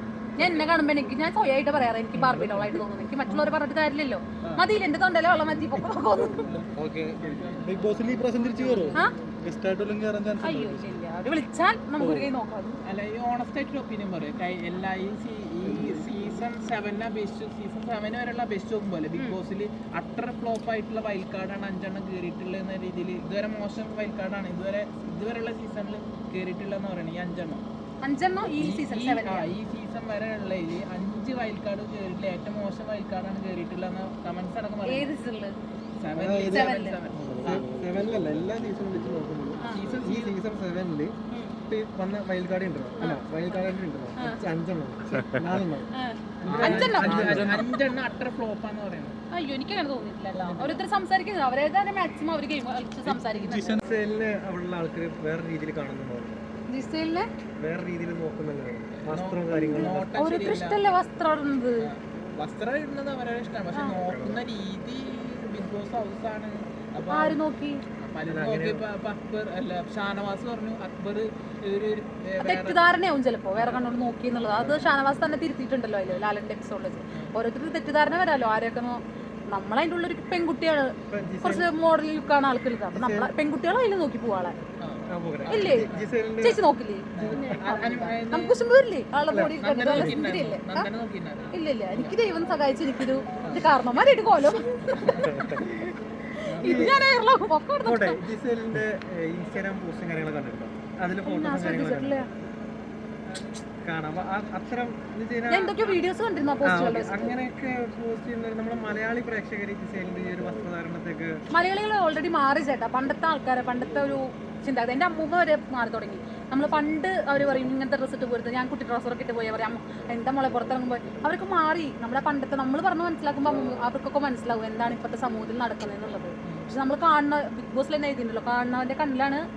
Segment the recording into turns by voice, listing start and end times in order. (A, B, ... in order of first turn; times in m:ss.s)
0:00.4-0:06.5 A
0:02.2-0:02.8 B
0:06.8-0:07.4 C
0:07.2-0:08.1 D
0:07.6-0:11.0 B
0:08.6-0:09.0 D
0:10.4-0:12.8 A
0:12.0-0:12.3 B
0:12.8-0:27.6 D
0:28.0-0:29.5 A
0:28.5-0:35.1 D
0:34.8-0:35.6 A
0:36.0-0:37.6 D
0:36.1-0:41.1 C
0:36.4-0:37.0 A
0:37.4-0:38.0 B
0:39.6-0:39.9 A
0:39.7-0:40.4 D
0:41.3-0:41.7 A
0:41.7-0:45.9 C
0:45.9-0:47.4 A
0:46.4-0:49.2 D
0:46.4-0:47.6 C
0:46.5-0:47.7 B
0:49.3-0:53.8 A
0:50.3-0:50.8 D
0:53.1-0:53.9 B
0:53.8-0:56.4 C
0:56.7-0:57.3 A
0:57.6-1:00.1 C
0:59.0-1:00.8 D
0:59.7-1:01.9 A
1:01.8-1:07.4 D
1:03.9-1:04.4 C
1:07.1-1:07.8 A
1:08.0-1:12.8 D
1:08.3-1:08.8 C
1:12.4-1:24.6 A
1:21.1-1:21.7 C
1:22.9-1:23.3 C
1:24.8-1:26.1 D
1:25.1-1:26.6 C
1:25.5-1:25.9 A
1:26.4-1:30.9 A
1:27.2-1:28.6 D
1:29.3-1:30.2 C
1:29.6-1:32.1 D
1:31.5-1:35.7 A
1:33.4-1:33.7 D
1:35.0-1:35.4 D
1:36.5-1:37.0 D
1:36.6-1:38.2 A
1:36.6-1:37.0 C
1:37.8-1:42.3 C
1:41.2-1:42.3 A
1:43.8-1:45.9 C
1:45.5-1:47.4 A
1:46.6-1:51.4 C
1:51.5-2:09.4 A